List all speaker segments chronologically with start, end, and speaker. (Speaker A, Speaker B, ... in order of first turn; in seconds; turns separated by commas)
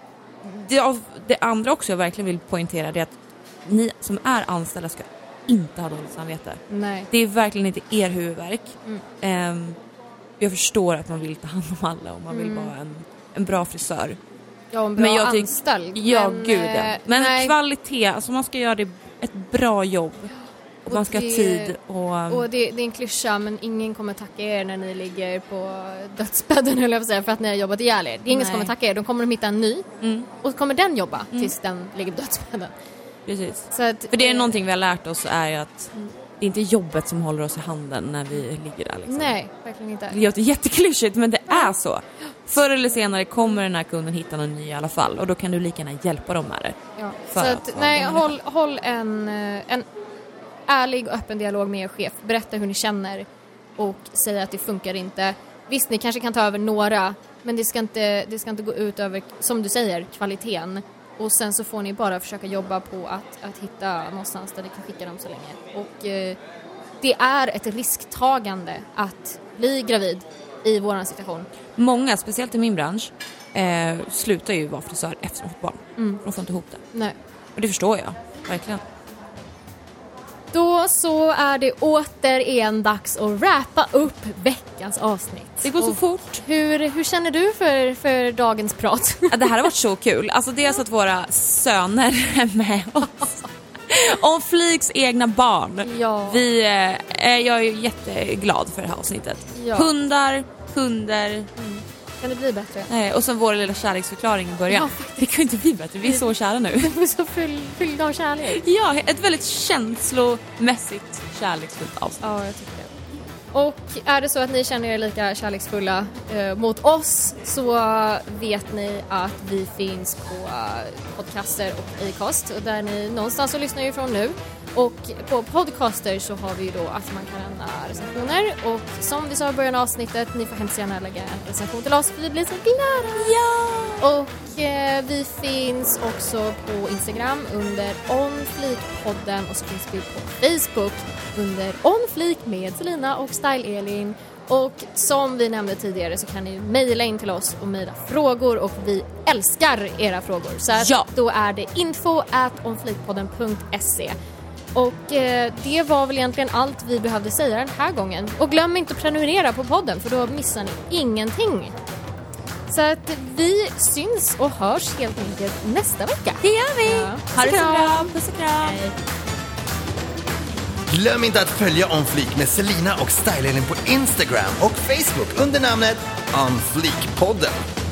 Speaker A: 0.4-9.8, Speaker B: 6.7-7.1, Speaker A: 10.4-14.2, Speaker B: 12.3-12.7, Speaker B: 14.7-17.6, Speaker A: 15.0-20.3, Speaker A: 20.9-22.5, Speaker B: 20.9-21.8, Speaker B: 22.3-29.9, Speaker A: 28.3-28.7, Speaker A: 30.0-30.3, Speaker B: 30.4-32.7, Speaker A: 33.3-39.4, Speaker B: 33.7-34.6, Speaker B: 39.1-40.2, Speaker A: 40.1-46.8, Speaker B: 47.0-49.9, Speaker A: 47.3-48.3, Speaker B: 50.7-53.3, Speaker B: 53.8-66.4, Speaker B: 67.0-71.5, Speaker A: 71.8-76.8, Speaker A: 77.5-78.8, Speaker B: 80.5-89.7, Speaker A: 85.6-86.4, Speaker A: 89.3-101.5, Speaker B: 95.8-96.5, Speaker B: 99.5-99.9, Speaker B: 101.6-102.9, Speaker A: 102.9-106.9, Speaker B: 104.7-105.3, Speaker B: 106.8-108.6, Speaker A: 108.5-112.2, Speaker B: 112.2-112.9, Speaker B: 113.5-133.4, Speaker A: 133.2-134.0, Speaker B: 134.0-154.2, Speaker A: 150.8-151.1, Speaker B: 154.8-161.8, Speaker B: 162.7-169.0, Speaker A: 166.4-168.8, Speaker C: 170.9-177.6